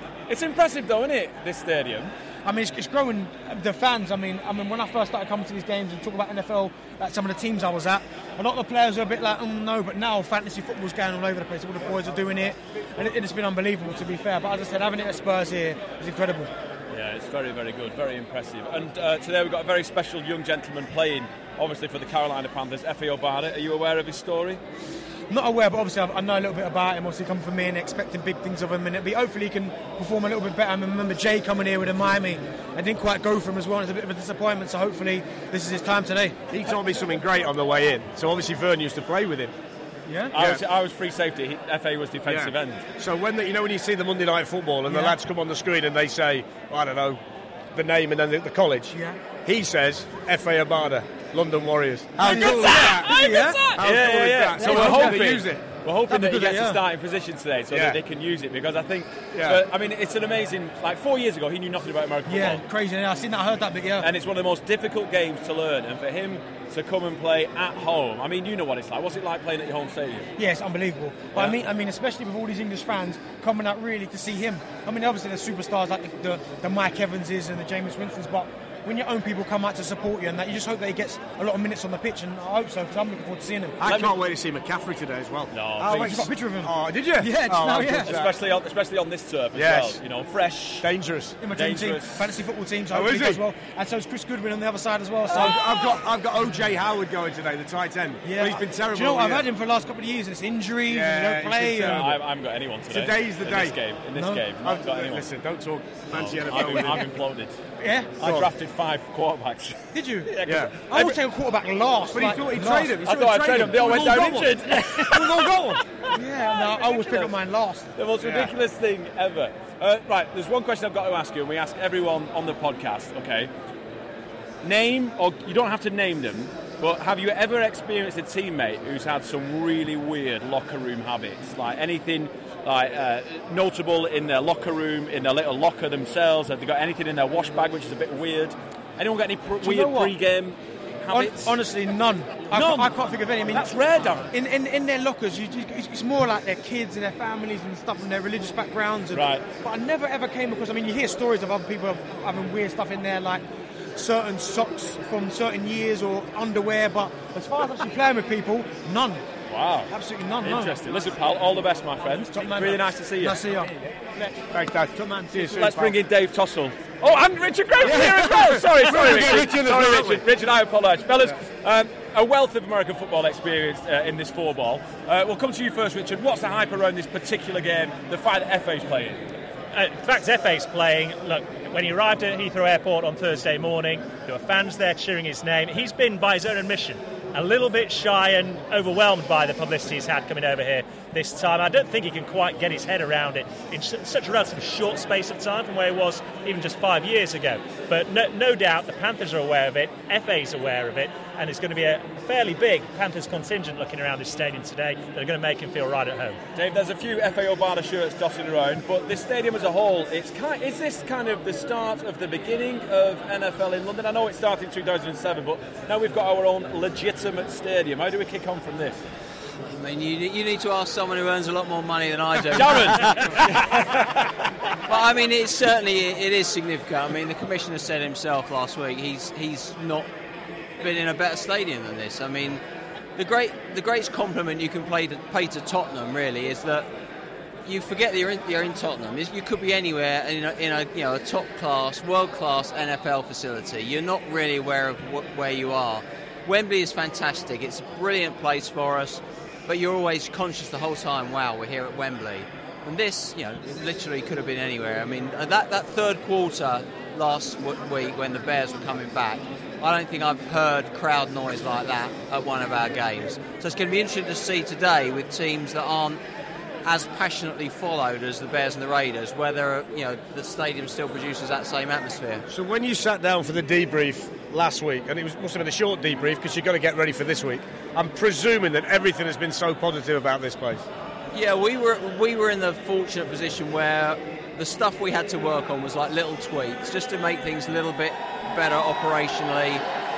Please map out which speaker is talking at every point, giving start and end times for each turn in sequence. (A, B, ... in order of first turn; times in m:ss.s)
0:00.3-0:02.1 A
0:02.4-0:16.5 B
0:16.9-0:24.6 A
0:25.3-0:36.4 B
0:36.5-0:39.5 C
0:40.1-0:40.4 B
0:40.3-0:42.8 A
0:40.3-0:40.6 C
0:42.2-0:47.2 C
0:44.9-0:45.2 B
0:47.7-0:55.7 C
0:48.9-0:49.2 B
0:52.2-0:53.8 B
0:52.2-1:02.6 A
0:54.6-0:55.4 B
0:56.1-0:56.8 B
0:57.7-0:58.0 C
0:59.3-0:59.6 C
1:02.3-1:04.1 B
1:04.0-1:10.3 A
1:10.4-1:23.8 B
1:23.8-1:28.3 C
1:23.8-1:24.1 A
1:25.5-1:26.3 A
1:25.8-1:28.2 B
1:28.0-1:30.9 A
1:29.5-1:30.0 C
1:30.8-1:31.4 C
1:31.4-1:35.6 B
1:31.5-1:32.3 A
1:32.9-1:33.4 C
1:35.3-1:39.4 C
1:38.2-1:42.1 B
1:40.9-1:42.2 C
1:41.8-1:45.3 A
1:42.9-1:43.8 C
1:44.2-1:44.4 B
1:44.6-1:47.2 C
1:46.1-1:47.6 A
1:46.5-1:46.9 B
1:47.8-1:48.2 B
1:48.2-1:51.2 A
1:48.2-1:48.5 C
1:49.9-1:53.0 B
1:50.4-1:51.0 C
1:52.1-1:55.8 C
1:53.0-1:55.5 A
1:56.1-1:57.3 A
1:56.1-1:57.9 B
1:58.0-2:03.5 A
1:58.2-1:58.5 C
2:04.6-2:21.6 A
2:19.6-2:20.1 B
2:21.1-2:23.8 B
2:22.5-2:24.3 A
2:24.3-2:33.4 B
2:29.1-2:29.4 A
2:34.0-2:39.2 B
2:39.5-2:39.9 A
2:39.9-2:40.8 B
2:40.4-2:43.4 A
2:42.3-2:44.4 B
2:44.5-2:45.9 C
2:44.9-2:45.6 B
2:45.4-2:59.2 A
2:47.8-2:50.2 C
2:48.9-2:49.4 B
2:59.7-3:26.4 D
3:26.5-3:39.0 A
3:39.7-3:43.4 E
3:42.5-3:44.3 A
3:44.9-3:50.1 E
3:50.8-3:52.6 E
3:53.2-3:56.9 E
3:57.6-4:26.2 E
4:26.8-4:32.4 E
4:32.5-4:40.8 C
4:41.3-4:49.8 E